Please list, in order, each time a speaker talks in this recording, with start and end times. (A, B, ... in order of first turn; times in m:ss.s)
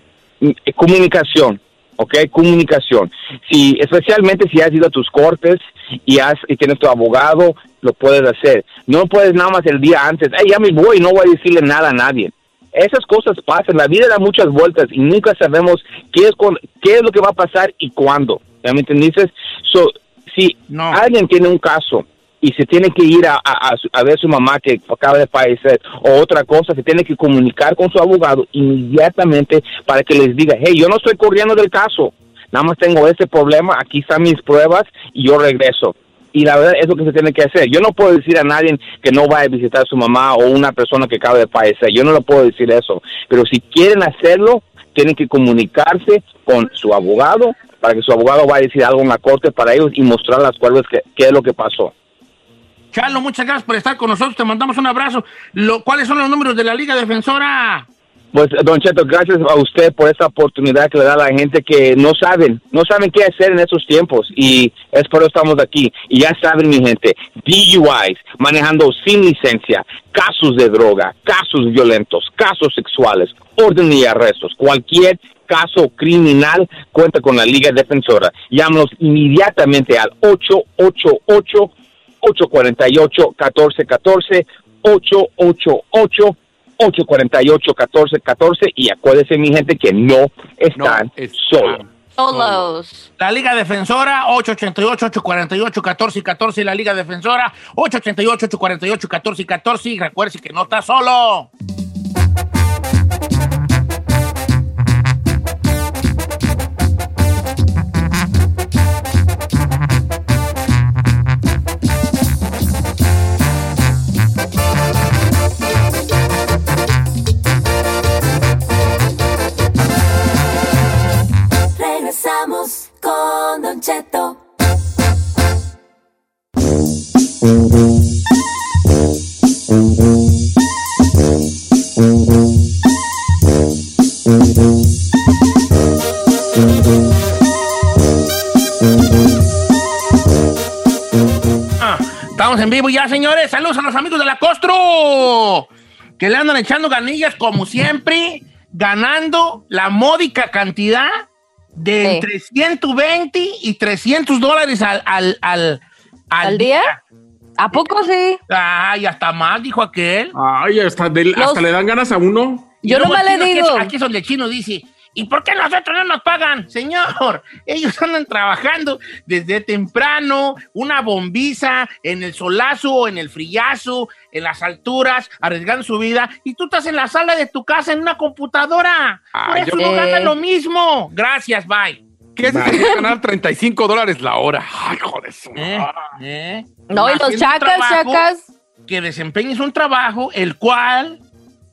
0:00.4-0:51.9 A
0:20.7-0:21.0 B
0:52.9-0:57.9 B
0:58.3-1:21.7 A
1:22.2-1:31.8 A
1:30.8-1:32.7 C
1:32.2-1:33.1 D
1:33.2-1:41.5 B
2:01.7-2:04.4 E
2:21.8-2:25.7 B
2:26.2-2:31.1 B
2:31.8-2:35.8 B
2:32.0-2:32.3 D
2:36.3-2:37.0 B
2:36.4-2:36.9 D
2:37.6-2:38.4 D
2:37.7-2:40.3 B
2:40.3-2:42.8 F
2:41.4-2:41.7 D
2:42.8-2:43.9 D
2:42.8-3:02.0 B
2:59.3-2:59.8 C
2:59.8-3:00.3 D
3:02.4-3:06.0 C
3:02.6-3:03.0 D
3:05.6-3:08.2 B
3:06.9-3:08.5 D
3:08.9-3:11.2 B